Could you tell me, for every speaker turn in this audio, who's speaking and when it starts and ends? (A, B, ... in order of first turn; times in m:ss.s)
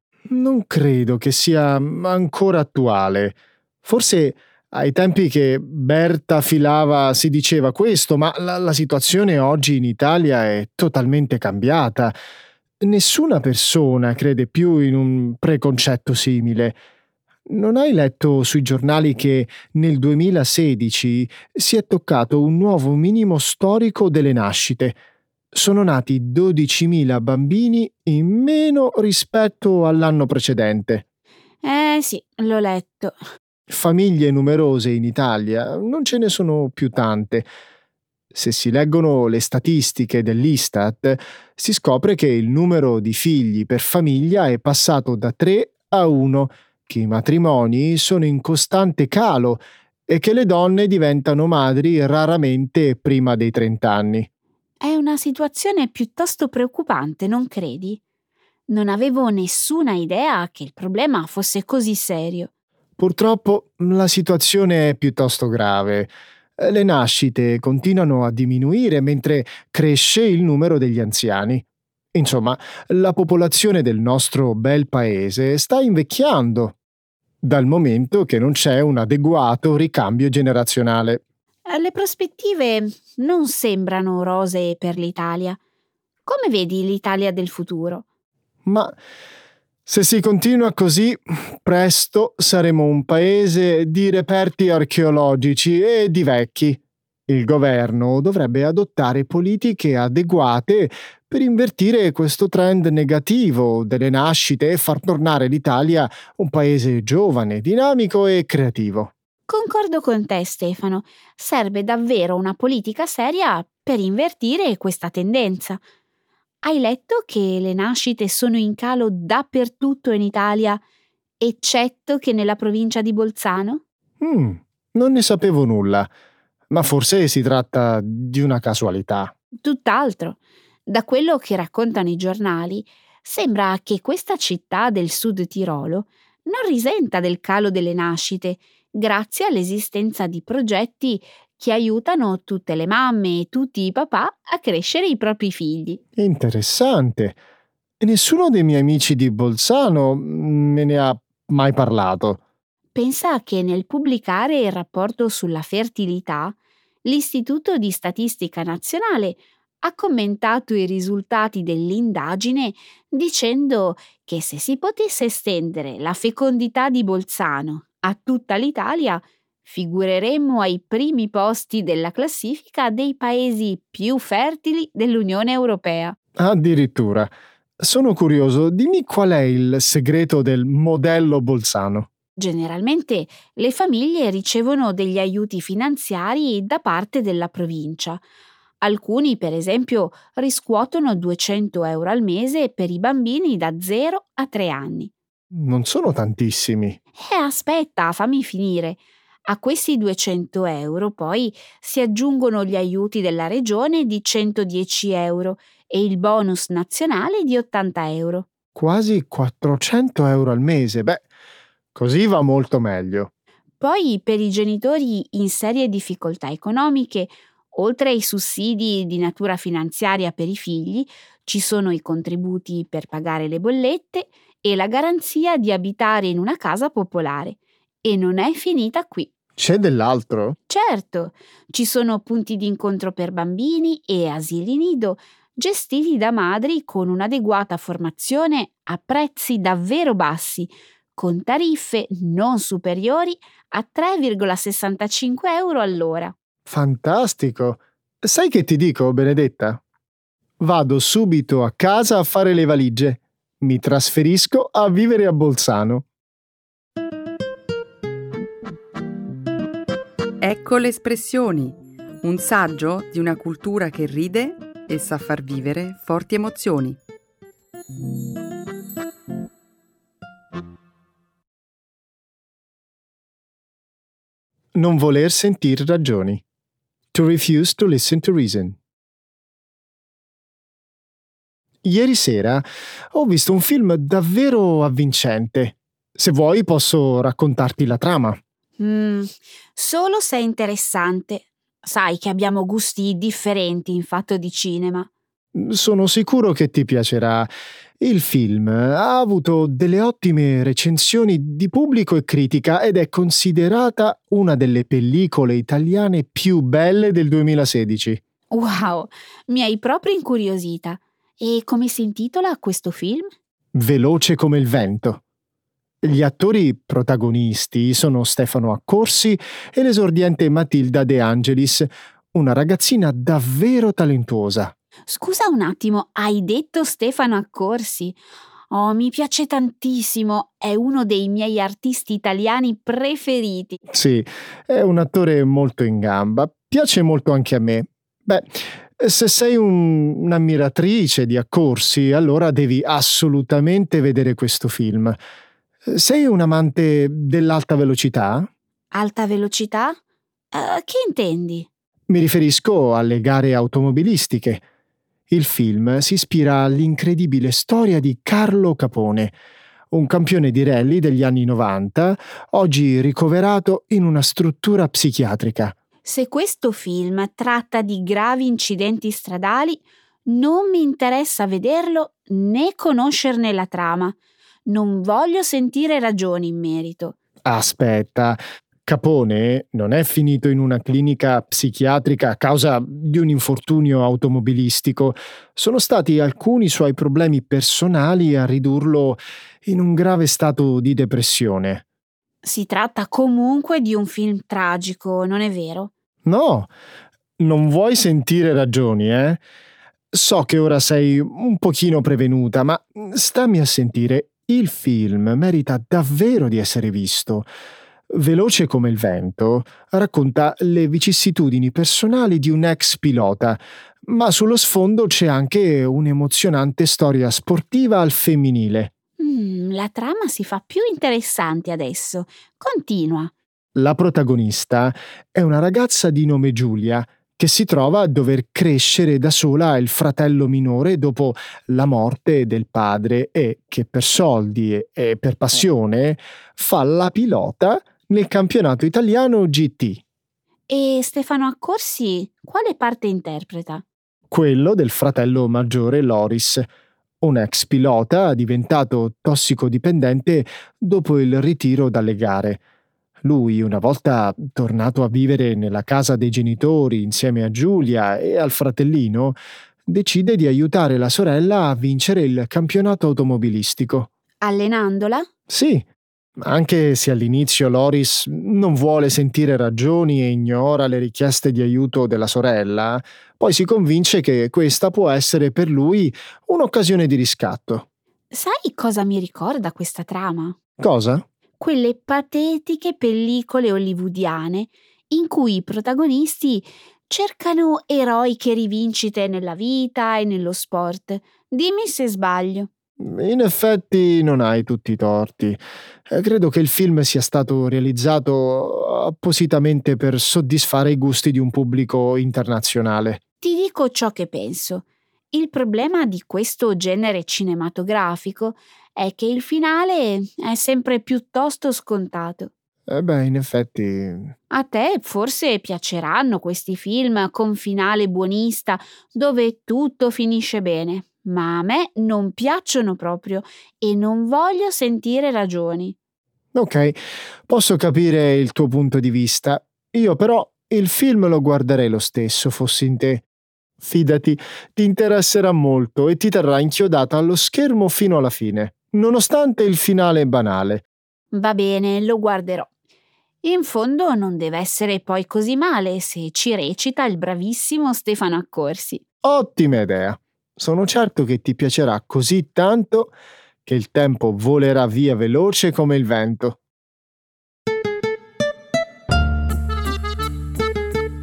0:00.3-0:12.1 A
0:12.8-0:16.8 A
0:17.5-0:25.0 A
0:25.5-0:31.0 A
0:31.6-0:33.2 B
0:33.7-0:37.5 A
0:38.3-0:54.3 A
0:54.8-0:58.0 B
0:58.7-1:02.5 B
1:03.0-1:16.7 A
1:17.4-1:21.2 A
1:21.7-1:25.6 B
1:26.2-1:28.0 B
1:28.6-1:28.9 A
1:29.8-1:49.1 A
1:49.5-1:55.8 B
1:56.6-2:00.8 B
2:01.4-2:03.8 B
2:04.2-2:06.1 A
2:06.7-2:09.3 A
2:09.6-2:26.0 B
2:26.2-2:27.4 A
2:28.0-2:32.4 A
2:32.9-2:56.2 B
2:56.4-3:02.1 A
3:02.4-3:08.2 B
3:08.8-3:15.1 B
3:15.5-3:17.0 A
3:17.2-3:28.5 B
3:28.7-3:31.2 A
3:31.9-3:33.3 A
3:33.8-3:49.3 B
3:49.6-3:50.6 A
3:50.7-4:06.3 B
4:06.7-4:09.8 A
4:10.6-4:16.0 A
4:20.4-4:27.0 C
4:34.7-4:36.4 A
4:37.1-4:38.8 A
4:41.8-4:48.4 A
4:48.8-4:55.1 B
4:55.5-4:57.5 A
4:58.0-5:08.2 A
5:08.5-5:13.3 B
5:13.7-5:15.2 A
5:16.0-5:24.7 A
5:25.1-5:28.2 B
5:28.7-5:33.8 B
5:33.9-5:45.2 A
5:45.8-5:48.5 A
5:48.9-5:50.0 B
5:50.5-5:51.7 B
5:52.1-5:54.6 A
5:55.3-5:59.3 A
5:59.9-6:05.7 A
6:06.0-6:14.1 B
6:14.7-6:17.2 B
6:17.4-6:31.8 A
6:32.4-6:35.9 B
6:36.2-6:36.7 A
6:37.4-6:39.4 A
6:40.1-6:47.5 A
6:48.1-6:58.9 A
6:59.2-7:03.3 B
7:03.8-7:20.0 A
7:20.7-7:23.8 B
7:24.3-7:26.7 A
7:27.2-7:32.6 A
7:33.2-7:44.1 A
7:44.4-7:45.2 B
7:45.5-7:45.8 A
7:46.4-7:57.8 A
7:58.3-8:00.6 B
8:00.8-8:01.2 A
8:01.6-8:12.7 B
8:13.0-8:23.2 A
8:23.4-8:32.5 B
8:32.9-8:34.3 A
8:34.5-8:46.0 B
8:46.5-8:53.2 A
8:53.8-9:00.8 A
9:01.3-9:02.7 B
9:03.4-9:09.0 B
9:09.2-9:13.1 A
9:13.6-9:16.6 A